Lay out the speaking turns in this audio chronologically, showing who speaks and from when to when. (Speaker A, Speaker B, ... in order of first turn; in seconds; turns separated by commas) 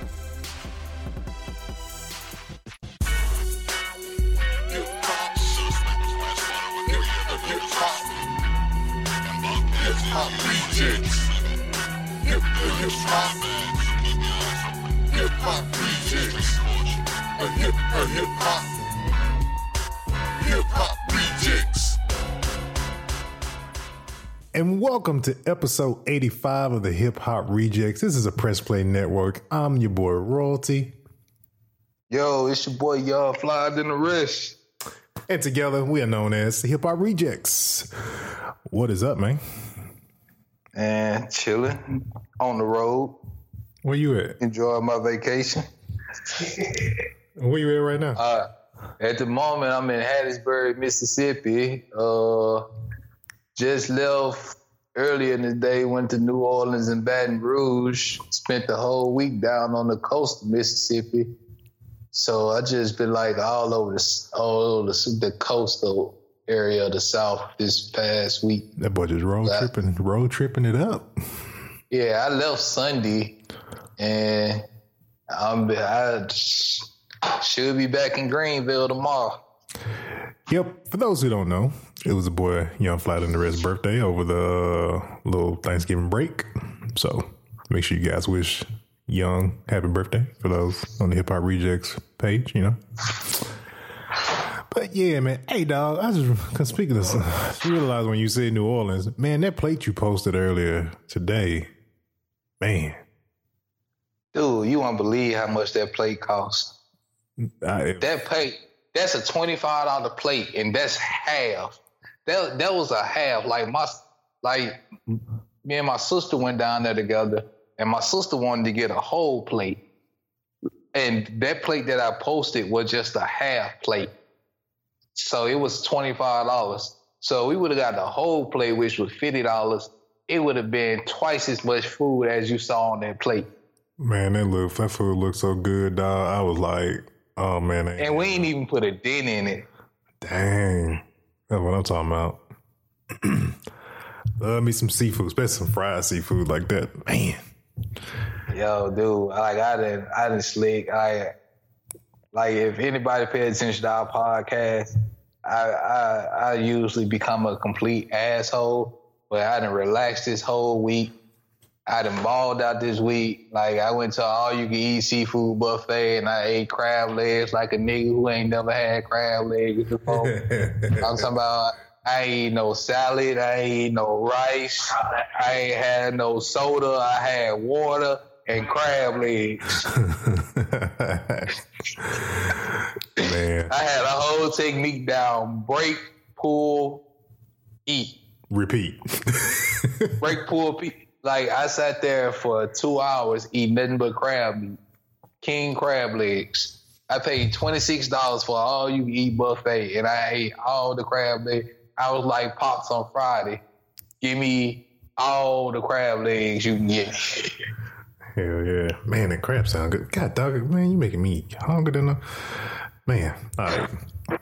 Speaker A: 15.4-16.1, Speaker A: 21.2-21.6, Speaker B: 24.5-30.9, Speaker A: 32.1-34.6, Speaker B: 35.3-39.4, Speaker A: 40.7-41.8, Speaker A: 42.4-43.1, Speaker B: 43.8-44.4, Speaker A: 44.4-45.6, Speaker A: 46.3-46.9, Speaker B: 47.4-48.2, Speaker A: 48.1-48.5, Speaker A: 49.0-52.6, Speaker A: 53.5-61.3, Speaker A: 62.1-68.7, Speaker B: 68.8-71.1, Speaker A: 69.4-69.7, Speaker A: 71.9-73.3, Speaker A: 74.0-74.6, Speaker A: 75.3-76.9, Speaker A: 77.4-79.4, Speaker B: 80.5-93.5, Speaker B: 94.7-101.7, Speaker B: 102.6-103.0, Speaker A: 104.3-106.8, Speaker B: 107.4-108.1, Speaker A: 108.0-114.8, Speaker A: 115.6-119.8, Speaker A: 120.9-124.1, Speaker A: 125.1-133.5, Speaker B: 134.0-138.5, Speaker A: 138.0-139.7, Speaker B: 140.2-142.4, Speaker B: 143.2-143.6, Speaker B: 144.4-147.4, Speaker A: 148.5-151.3, Speaker A: 152.3-154.9, Speaker A: 155.4-161.1, Speaker A: 161.9-170.3, Speaker B: 170.1-171.2, Speaker A: 171.0-179.8, Speaker B: 179.8-183.7, Speaker A: 183.3-187.0, Speaker A: 187.8-188.2, Speaker B: 188.5-190.1, Speaker A: 190.2-194.8, Speaker A: 195.4-203.6, Speaker A: 204.2-207.5, Speaker B: 208.3-214.0